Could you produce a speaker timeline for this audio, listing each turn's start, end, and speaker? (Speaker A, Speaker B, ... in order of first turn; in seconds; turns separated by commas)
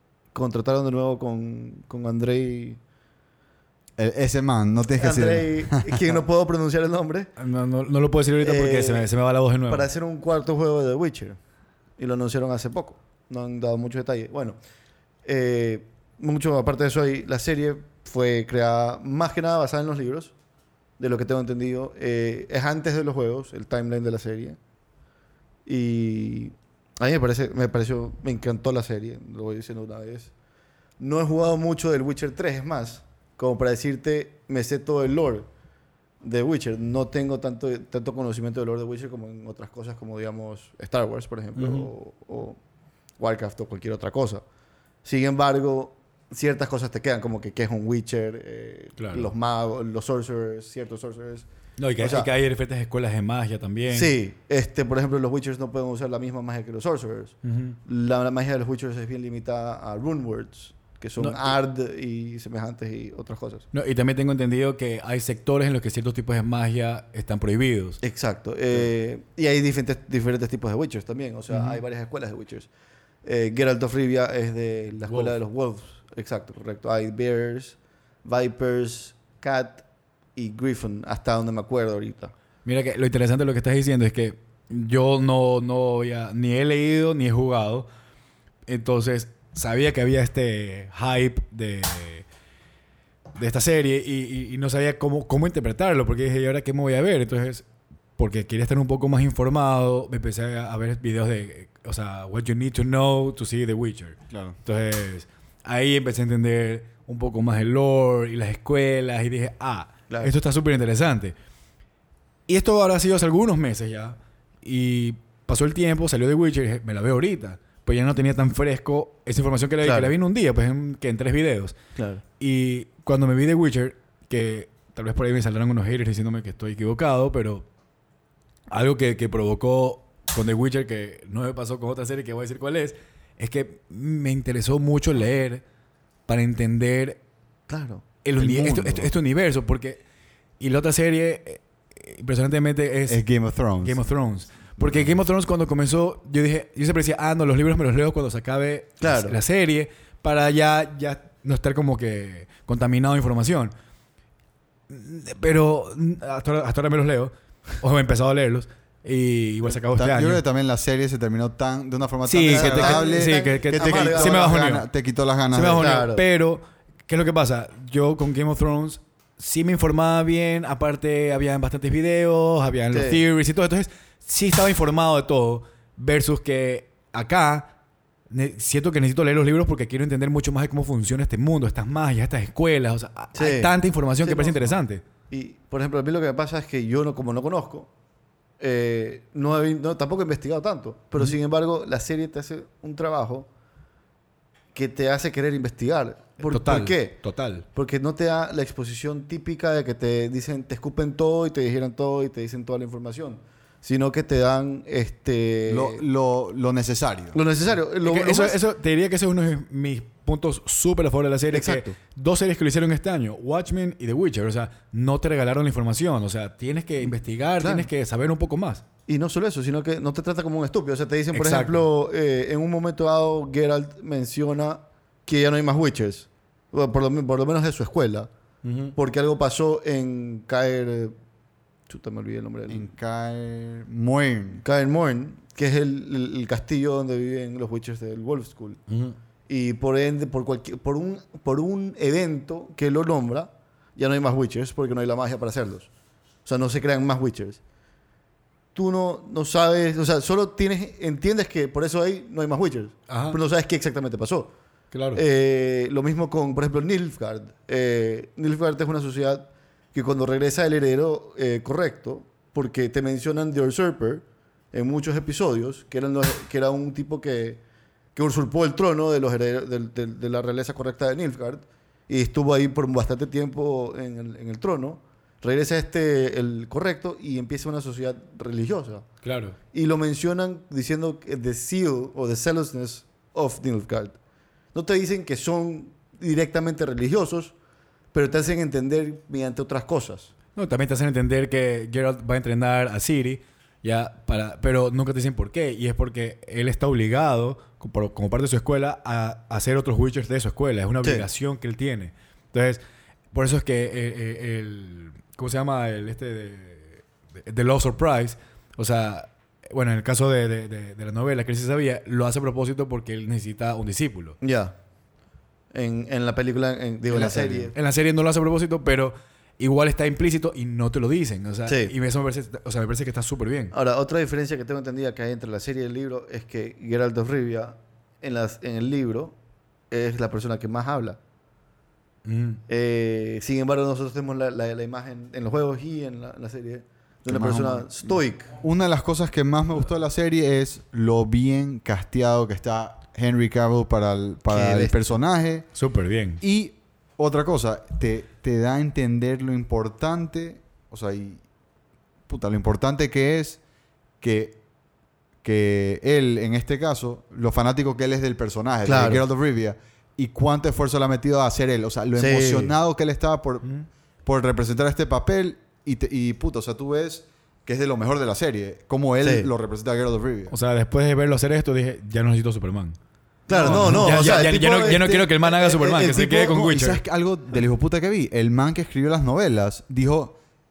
Speaker A: 0.3-2.8, Speaker B: 4.0-6.2, Speaker A: 4.9-7.3, Speaker C: 7.4-9.9, Speaker A: 8.4-9.1, Speaker A: 9.7-11.4, Speaker A: 12.0-14.6, Speaker A: 15.2-20.3, Speaker A: 21.0-24.6, Speaker A: 25.6-30.3, Speaker A: 31.0-35.5, Speaker A: 36.2-42.6, Speaker C: 41.5-41.9, Speaker A: 43.2-44.4, Speaker A: 45.0-51.5, Speaker C: 49.0-49.3, Speaker C: 51.8-54.1, Speaker A: 52.0-52.3, Speaker A: 53.9-63.6, Speaker C: 57.4-57.8, Speaker C: 61.2-61.5, Speaker C: 63.7-68.0, Speaker A: 68.0-72.7, Speaker C: 71.5-71.8, Speaker A: 73.2-79.8, Speaker C: 75.1-75.3, Speaker A: 80.3-82.3, Speaker C: 82.6-87.9, Speaker C: 88.7-92.2, Speaker C: 93.3-97.6, Speaker C: 98.2-111.3, Speaker B: 104.3-104.5, Speaker C: 112.5-121.8, Speaker A: 119.8-120.1, Speaker A: 122.0-122.2, Speaker C: 122.4-127.6, Speaker C: 128.7-135.6, Speaker C: 136.3-137.2, Speaker A: 137.7-139.1, Speaker C: 138.2-140.0, Speaker C: 140.6-143.2, Speaker B: 143.1-144.0, Speaker C: 143.8-153.7, Speaker B: 144.8-145.2, Speaker A: 149.0-149.4, Speaker C: 154.9-160.4, Speaker B: 160.0-165.9, Speaker C: 162.2-164.8, Speaker A: 162.5-164.5, Speaker C: 165.5-177.7, Speaker A: 165.7-166.2, Speaker A: 172.9-173.2, Speaker C: 178.3-185.0, Speaker A: 183.3-183.7, Speaker A: 184.2-184.8, Speaker A: 185.3-187.9, Speaker A: 188.6-193.5, Speaker A: 194.7-197.2, Speaker C: 196.4-197.6, Speaker A: 197.7-206.0, Speaker B: 205.7-207.4, Speaker A: 207.3-208.6, Speaker C: 207.9-218.8, Speaker A: 211.5-211.9, Speaker A: 217.0-217.9, Speaker A: 219.1-228.3, Speaker C: 221.3-221.8, Speaker C: 228.6-228.9, Speaker A: 228.9-231.1, Speaker A: 231.9-232.8, Speaker B: 232.7-234.6, Speaker A: 234.6-238.8, Speaker C: 238.9-239.2, Speaker A: 239.5-245.9, Speaker A: 246.4-247.6, Speaker A: 248.7-254.5, Speaker C: 253.1-253.4, Speaker C: 254.9-255.2, Speaker A: 255.1-267.6, Speaker A: 268.1-279.1, Speaker C: 279.2-279.5, Speaker A: 279.7-284.2, Speaker A: 284.7-287.5, Speaker A: 288.1-290.3, Speaker C: 290.6-302.8, Speaker C: 303.3-314.4, Speaker A: 314.4-314.7, Speaker A: 315.7-317.7, Speaker B: 317.1-317.7, Speaker C: 317.2-323.7, Speaker A: 321.7-321.9, Speaker A: 323.7-329.4, Speaker A: 329.9-331.2, Speaker C: 332.2-332.6, Speaker A: 332.7-338.5, Speaker B: 337.3-345.7, Speaker A: 344.5-344.9, Speaker C: 345.7-346.4, Speaker B: 346.4-351.4, Speaker B: 352.3-353.6, Speaker B: 354.2-354.6, Speaker B: 355.4-370.5, Speaker A: 358.8-359.2, Speaker A: 362.2-362.7, Speaker A: 369.2-369.5, Speaker C: 370.5-373.0, Speaker A: 373.5-376.6, Speaker C: 373.5-377.0, Speaker B: 373.5-374.4, Speaker B: 376.5-380.4